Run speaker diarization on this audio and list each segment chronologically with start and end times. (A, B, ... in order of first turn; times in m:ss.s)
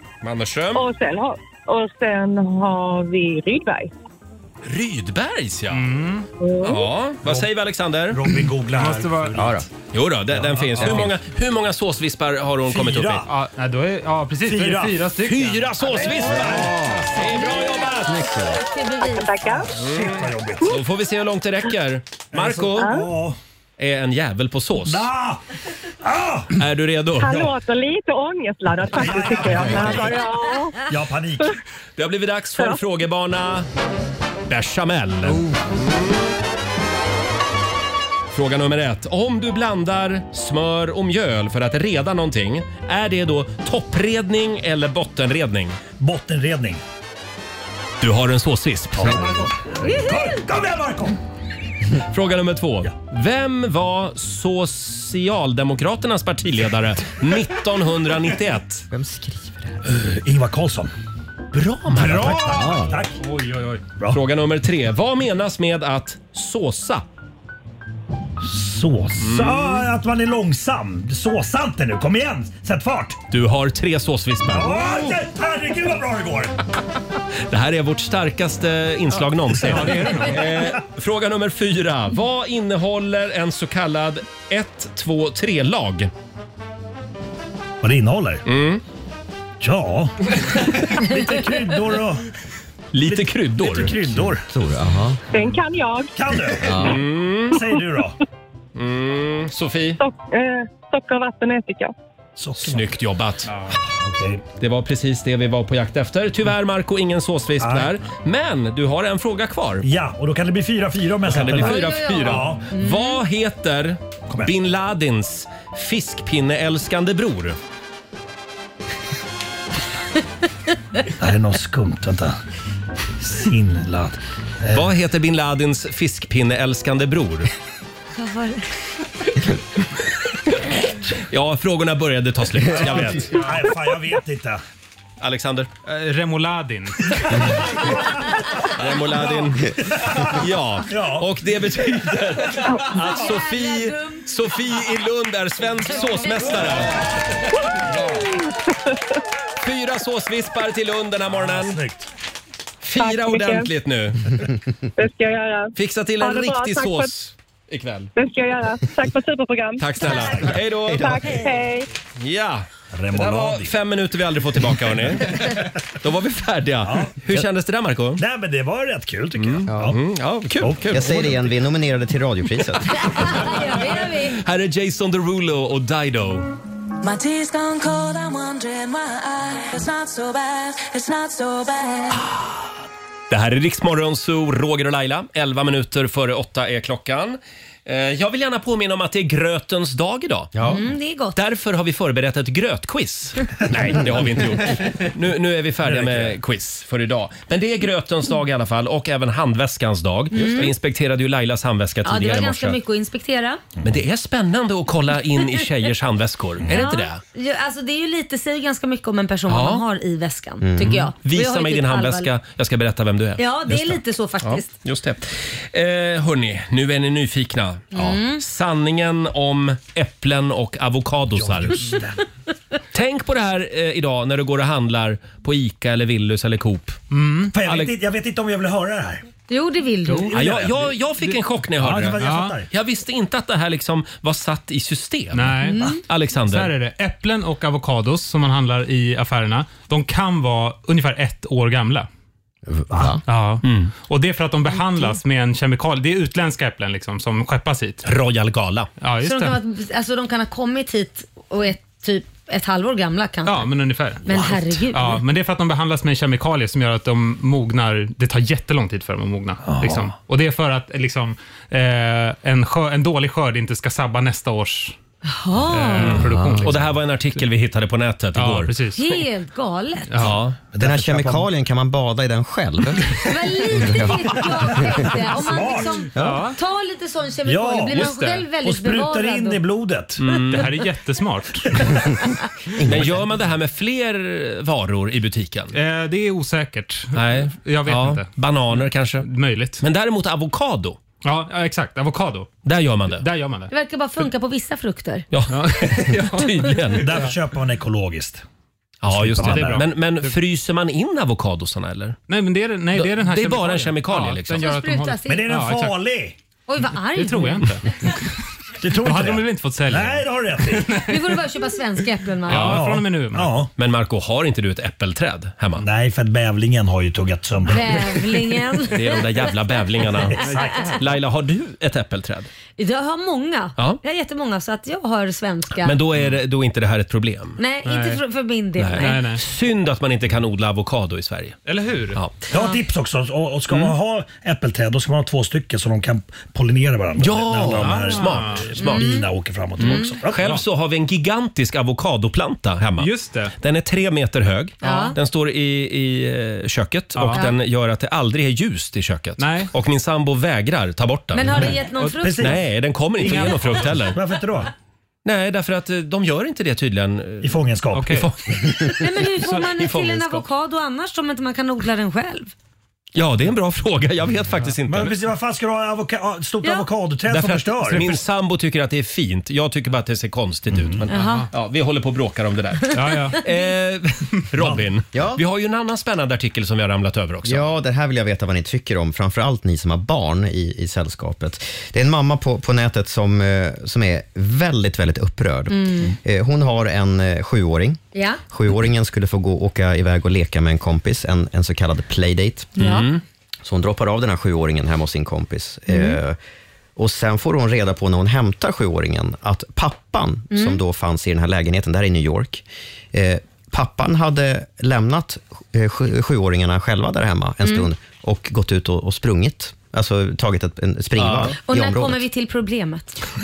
0:00.2-0:00.9 A
0:00.8-0:03.9 B
0:04.6-0:05.9 A
0:05.7-0:06.3 C
0:06.4-0:06.9 B
0:06.6-0:08.2 A
0:07.2-0:07.5 D
0:08.1-0:09.6 D
0:08.7-0:09.5 C
0:09.3-0:09.7 E
0:09.9-0:13.3 A
0:10.3-0:11.2 D
0:12.7-0:13.2 D
0:13.2-0:15.7 C
0:14.4-0:15.1 D
0:15.2-0:18.1 A
0:15.8-0:18.4 D
0:16.4-0:17.1 E
0:17.6-0:17.9 F
0:18.1-0:18.6 E
0:18.7-0:19.3 F
0:19.2-0:19.7 B
0:19.4-0:20.8 D
0:19.8-0:22.9 A
0:22.3-0:23.4 D
0:22.8-0:23.1 B
0:23.8-0:25.1 A
0:24.8-0:25.4 D
0:26.0-0:26.6 D
0:26.6-0:27.4 A
0:27.2-0:30.9 B
0:27.2-0:27.6 D
0:28.9-0:30.2 D
0:30.8-0:31.5 D
0:32.0-0:33.7 A
0:34.5-0:35.5 A
0:38.3-0:45.8 A
0:46.0-0:46.8 D
0:48.0-0:49.4 A
0:48.9-0:51.2 D
0:52.1-0:58.8 A
0:58.9-0:59.8 E
0:59.8-1:00.9 D
1:01.5-1:02.8 A
1:01.9-1:03.2 D
1:02.5-1:03.0 E
1:03.2-1:03.8 C
1:04.1-1:07.0 A
1:08.4-1:13.2 D
1:09.2-1:09.9 A
1:13.3-1:14.8 A
1:14.4-1:16.5 D
1:17.5-1:26.1 A
1:19.6-1:20.5 C
1:27.8-1:28.4 D
1:28.5-1:28.8 A
1:29.6-1:32.3 D
1:32.9-1:33.9 A
1:33.0-1:34.4 D
1:34.2-1:35.2 E
1:35.3-1:36.1 B
1:36.2-1:37.0 D
1:36.6-1:37.0 E
1:36.8-1:37.6 A
1:37.5-1:38.2 D
1:38.8-1:40.0 A
1:40.0-1:41.9 B
1:42.4-1:42.9 D
1:42.6-1:43.5 A
1:43.8-1:44.4 D
1:44.6-1:49.8 A
1:47.6-1:48.0 D
1:49.8-1:52.7 D
1:51.2-1:57.6 A
1:51.5-1:53.2 F
2:01.2-2:02.4 D
2:03.2-2:04.9 D
2:04.7-2:07.5 A
2:08.2-2:08.6 F
2:11.3-2:13.4 A
2:12.7-2:14.6 D
2:15.2-2:15.7 A
2:15.9-2:17.6 C
2:18.8-2:27.0 A
2:19.2-2:21.3 D
2:22.1-2:22.3 D
2:23.1-2:24.3 F
2:26.0-2:26.6 F
2:29.6-2:31.8 A
2:31.3-2:32.1 D
2:32.8-2:34.5 A
2:33.0-2:33.7 B
2:35.0-2:37.1 B
2:35.8-2:38.1 A
2:38.2-2:39.9 B
2:39.8-2:41.4 A
2:40.0-2:40.6 D
2:40.9-2:41.9 B
2:42.2-2:48.2 A
2:42.9-2:43.8 D
2:46.8-2:47.2 D
2:48.2-2:50.0 D
2:49.4-2:51.5 A
2:49.7-2:50.0 E
2:50.6-2:51.0 D
2:50.9-2:53.3 E
2:53.1-2:54.4 F
2:53.4-2:56.5 A
2:57.0-3:02.2 G
3:03.3-3:10.5 A
3:10.5-3:10.8 E
3:10.7-3:11.4 F
3:11.4-3:22.8 A
3:13.7-3:14.0 D
3:15.8-3:16.4 D
3:20.3-3:20.7 F
3:22.0-3:23.6 F
3:23.8-3:27.2 A
3:26.7-3:32.3 F
3:29.5-3:29.8 A
3:30.6-3:31.0 E
3:30.8-3:33.9 A
3:33.4-3:34.7 F
3:34.4-3:41.9 A
3:37.9-3:38.4 F
3:41.3-3:42.2 D
3:42.9-3:47.0 A
3:47.1-3:47.6 C
3:47.5-3:49.3 D
3:47.6-3:47.9 A
3:49.5-3:50.3 F
3:50.1-3:50.4 C
3:50.2-3:51.0 D
3:50.3-3:56.7 A
3:51.8-3:52.7 D
3:52.2-3:52.6 C
3:55.3-4:02.1 C
3:55.6-3:56.0 F
4:02.7-4:03.2 E
4:03.3-4:08.0 C
4:03.6-4:03.9 A
4:08.0-4:08.9 A
4:09.0-4:09.6 C
4:09.2-4:13.7 F
4:13.4-4:25.0 C
4:14.2-4:15.2 F
4:19.6-4:20.1 D
4:25.3-4:26.2 F
4:25.7-4:26.9 C
4:26.0-4:28.8 A
4:26.2-4:26.7 E
4:28.4-4:29.2 C
4:29.0-4:30.3 F
4:30.1-4:30.4 C
4:30.2-4:30.6 A
4:30.7-4:31.5 D
4:30.8-4:33.2 E
4:33.2-4:39.6 F
4:33.7-4:35.0 E
4:35.1-4:36.1 D
4:36.1-4:36.6 C
4:36.2-4:36.4 E
4:37.4-4:40.3 D
4:37.9-4:38.5 C
4:40.2-4:40.8 A
4:40.4-4:41.7 C
4:42.8-4:43.1 E
4:42.8-4:45.7 A
4:45.7-4:49.8 C
4:47.2-4:49.3 A
4:49.8-4:51.0 A
4:51.2-4:52.6 C
4:52.6-4:53.2 A
4:53.1-4:53.7 C
4:53.7-4:55.2 F
4:55.3-4:57.2 A
4:55.5-4:57.3 C
4:57.0-4:58.4 D
4:59.0-5:02.2 A
4:59.1-4:59.8 D
4:59.4-5:00.4 C
5:02.3-5:06.0 C
5:02.9-5:04.7 A
5:04.6-5:05.4 F
5:05.2-5:06.4 D
5:06.7-5:07.7 F
5:07.1-5:08.2 C
5:08.8-5:11.0 D
5:09.0-5:11.1 C
5:11.1-5:12.8 F
5:12.5-5:13.5 C
5:12.5-5:13.7 D
5:13.8-5:15.9 A
5:15.8-5:18.3 D
5:17.7-5:19.2 F
5:18.9-5:22.5 A
5:20.1-5:21.0 D
5:22.8-5:26.0 F
5:25.8-5:27.6 A
5:27.6-5:29.2 F
5:27.8-5:28.2 C
5:28.8-5:31.6 A
5:29.0-5:29.4 C
5:31.6-5:32.2 C
5:32.5-5:40.6 D
5:37.2-5:39.1 A
5:37.7-5:38.7 C
5:38.8-5:39.3 F
5:39.8-5:51.8 A
5:39.8-5:40.1 F
5:43.0-5:43.5 C
5:44.8-5:45.2 F
5:47.2-5:47.4 C
5:49.4-5:49.7 C
5:51.3-5:52.5 F
5:51.6-5:52.3 C
5:52.2-5:54.7 D
5:52.4-5:54.2 A
5:53.2-5:54.1 C
5:55.2-6:00.4 A
5:57.4-5:58.2 D
5:57.9-5:58.3 C
5:59.0-6:02.5 F
6:03.2-6:05.1 A
6:04.9-6:08.2 D
6:07.3-6:17.7 A
6:10.7-6:11.1 D
6:11.1-6:11.5 F
6:11.1-6:11.5 C
6:12.9-6:13.4 C
6:14.6-6:14.9 D
6:15.1-6:15.4 E
6:17.4-6:32.8 E
6:25.7-6:26.1 F
6:28.2-6:28.4 F
6:32.8-6:33.2 A
6:32.8-6:33.1 F
6:33.6-6:36.4 E
6:35.9-6:36.2 F
6:37.0-6:52.2 E
6:40.5-6:40.8 F
6:51.2-6:51.6 A
6:51.6-6:53.2 F